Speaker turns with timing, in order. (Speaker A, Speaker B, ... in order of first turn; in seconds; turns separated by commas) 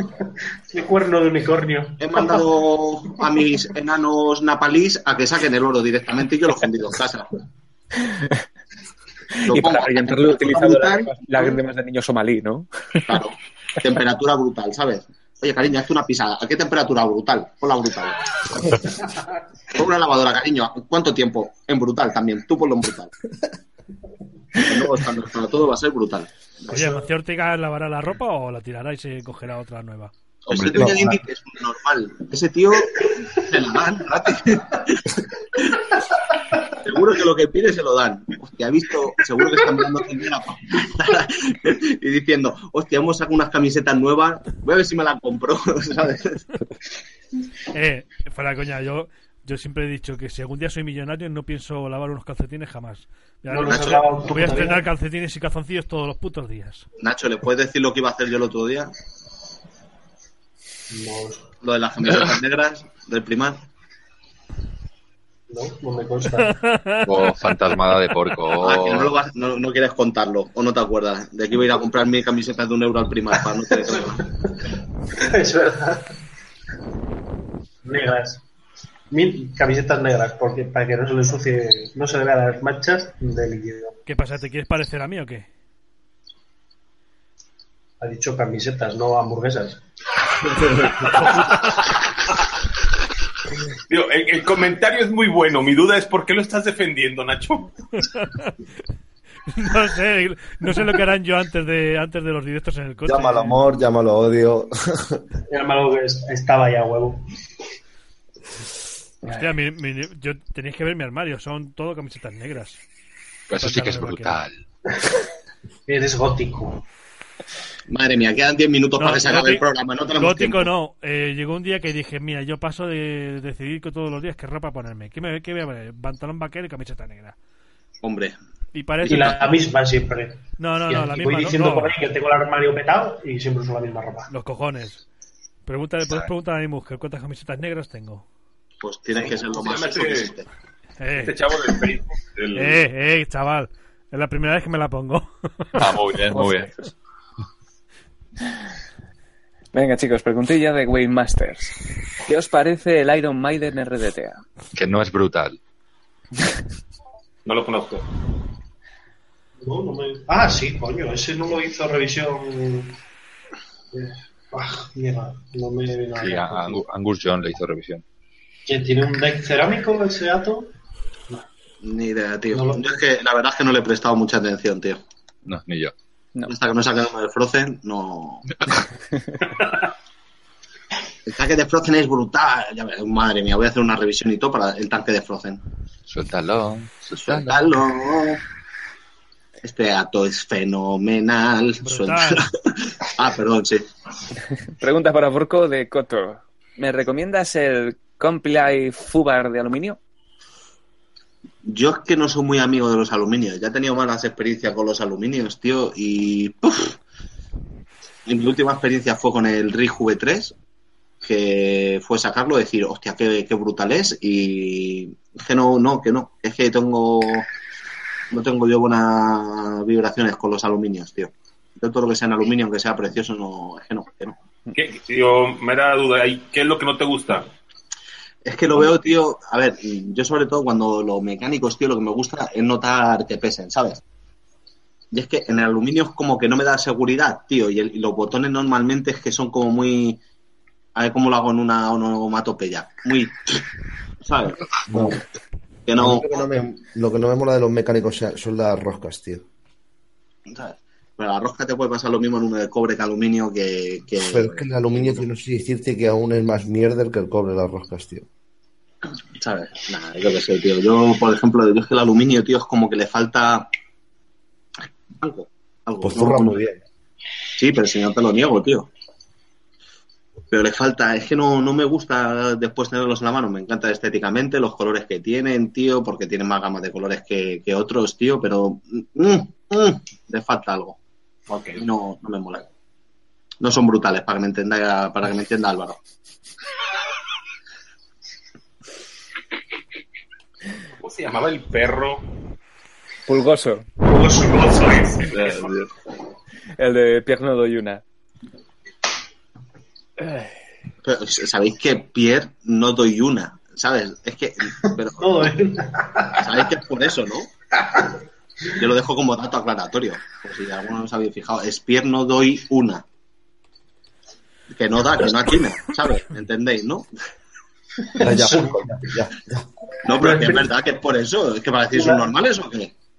Speaker A: 0.2-2.5, Speaker B: 2.0-7.3, Speaker C: 9.4-13.2, Speaker B: 9.4-11.6, Speaker B: 13.1-19.1, Speaker B: 19.7-23.1, Speaker B: 24.6-26.8, Speaker A: 26.7-27.0, Speaker D: 26.7-30.1, Speaker B: 30.4-36.0, Speaker E: 30.5-30.9, Speaker F: 30.7-31.2, Speaker B: 36.6-46.5, Speaker D: 47.7-56.8, Speaker A: 53.5-54.8, Speaker B: 53.6-54.0, Speaker B: 57.0-58.9, Speaker A: 60.9-61.5, Speaker B: 61.6-63.6, Speaker A: 65.5-66.6, Speaker D: 66.4-67.3, Speaker E: 67.0-69.1, Speaker B: 68.6-74.3, Speaker A: 73.9-76.1, Speaker A: 77.8-78.4, Speaker A: 79.1-84.0, Speaker D: 84.1-85.5, Speaker A: 88.0-89.8, Speaker D: 90.7-91.9, Speaker G: 93.9-97.7, Speaker D: 98.0-98.5, Speaker D: 99.5-103.6, Speaker F: 103.0-105.2, Speaker A: 105.5-107.2, Speaker D: 109.3-112.8, Speaker E: 113.5-114.6, Speaker D: 113.6-114.4, Speaker A: 115.9-116.8, Speaker B: 117.9-120.7, Speaker D: 119.0-127.3, Speaker B: 128.0-128.3, Speaker D: 128.7-129.5, Speaker A: 129.0-134.3, Speaker D: 130.6-131.9, Speaker D: 134.3-135.0, Speaker D: 135.7-138.2, Speaker B: 138.8-140.4, Speaker G: 139.3-140.3, Speaker D: 141.0-141.4, Speaker G: 141.2-142.9, Speaker D: 142.5-145.9, Speaker E: 145.8-146.7, Speaker C: 146.3-146.9, Speaker C: 149.7-154.4, Speaker E: 154.7-155.6, Speaker G: 157.4-158.0, Speaker A: 159.6-163.0, Speaker A: 163.9-166.8, Speaker E: 166.2-168.0, Speaker A: 168.7-170.7, Speaker B: 171.8-175.0, Speaker A: 172.5-172.9, Speaker E: 175.4-175.9, Speaker B: 176.4-178.5, Speaker B: 181.2-185.6, Speaker E: 186.1-187.8, Speaker B: 187.2-188.4, Speaker B: 189.6-193.9, Speaker D: 191.8-192.4, Speaker C: 194.8-200.0, Speaker B: 201.6-207.0, Speaker B: 208.2-210.5, Speaker B: 211.2-217.5, Speaker B: 218.3-224.4, Speaker G: 224.7-227.5, Speaker B: 228.4-234.0, Speaker B: 235.1-240.2, Speaker B: 240.9-243.6, Speaker B: 244.2-245.2, Speaker F: 244.9-245.2, Speaker B: 245.8-246.4, Speaker F: 246.0-249.4, Speaker B: 250.5-255.2, Speaker F: 254.2-258.2, Speaker B: 259.3-263.7, Speaker B: 265.1-266.6, Speaker F: 266.0-266.8, Speaker B: 267.6-268.9, Speaker B: 270.5-281.0, Speaker G: 281.5-281.8, Speaker B: 281.8-282.7, Speaker B: 283.6-286.0, Speaker G: 291.0-292.2, Speaker C: 293.3-293.9, Speaker G: 294.1-295.8, Speaker A: 294.1-294.6, Speaker E: 295.3-295.9, Speaker C: 296.8-298.0, Speaker C: 300.2-300.5, Speaker B: 301.0-305.5, Speaker A: 305.1-306.7, Speaker B: 306.4-307.5, Speaker B: 308.7-313.0, Speaker B: 314.7-317.1, Speaker A: 318.1-318.9, Speaker F: 318.2-319.6, Speaker B: 320.0-322.9, Speaker A: 320.1-320.7, Speaker A: 321.9-322.3